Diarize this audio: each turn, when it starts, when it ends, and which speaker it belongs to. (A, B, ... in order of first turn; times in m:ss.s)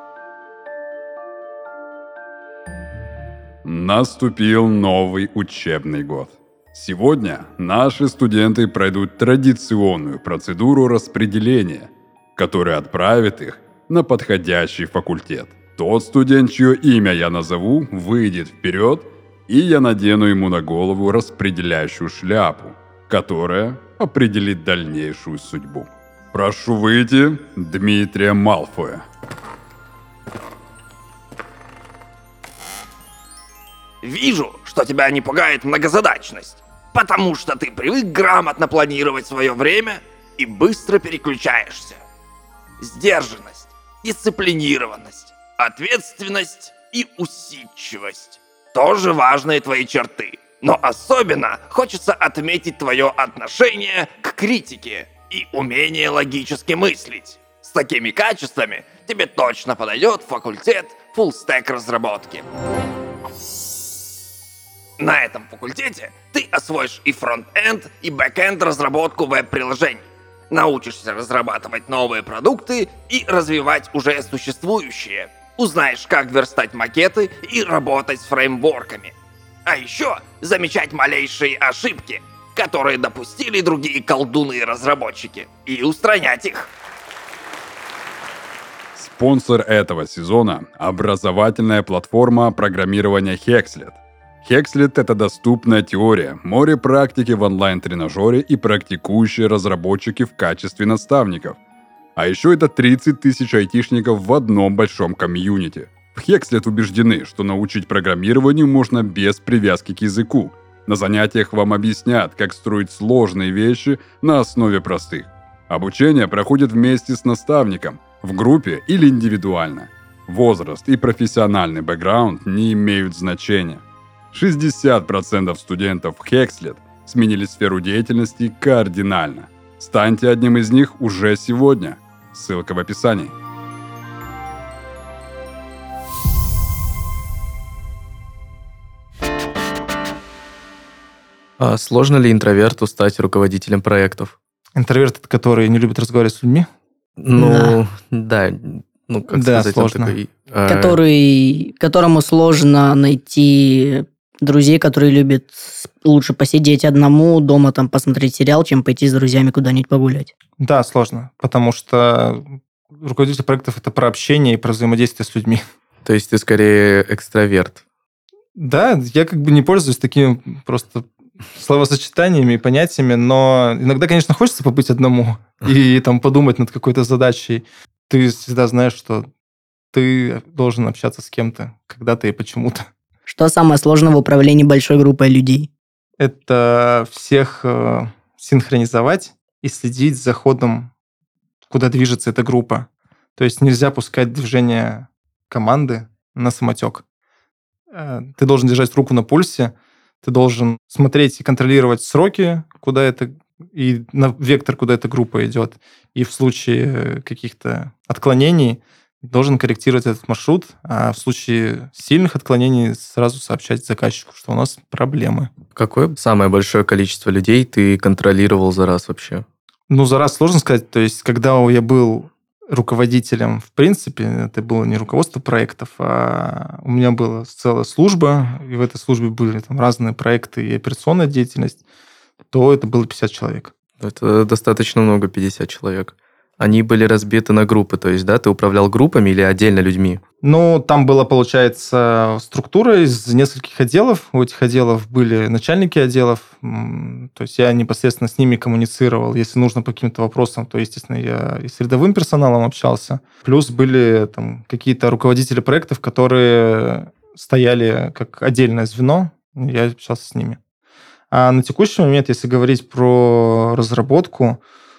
0:03.6-0:29.0 A
0:34.0-0:42.0 B
0:42.8-1:02.5 B
1:05.0-1:19.2 B
1:19.7-1:26.7 B
1:29.0-1:41.6 A
1:42.2-2:13.3 A
2:21.6-2:24.4 C
2:24.8-2:26.7 D
2:27.2-2:31.0 C
2:27.4-2:27.8 E
2:29.3-2:30.2 D
2:30.7-2:40.3 E
2:40.6-2:45.6 D
2:46.0-2:47.8 C
2:48.6-2:59.3 D
2:59.9-3:02.9 D
3:03.3-3:05.7 E
3:06.2-3:10.9 D
3:11.7-3:17.0 D
3:17.9-3:35.5 D
3:35.8-3:39.5 C
3:39.9-3:51.8 D
3:52.5-3:53.7 D
3:54.0-4:00.2 C
4:00.4-4:20.6 D
4:21.3-4:24.6 D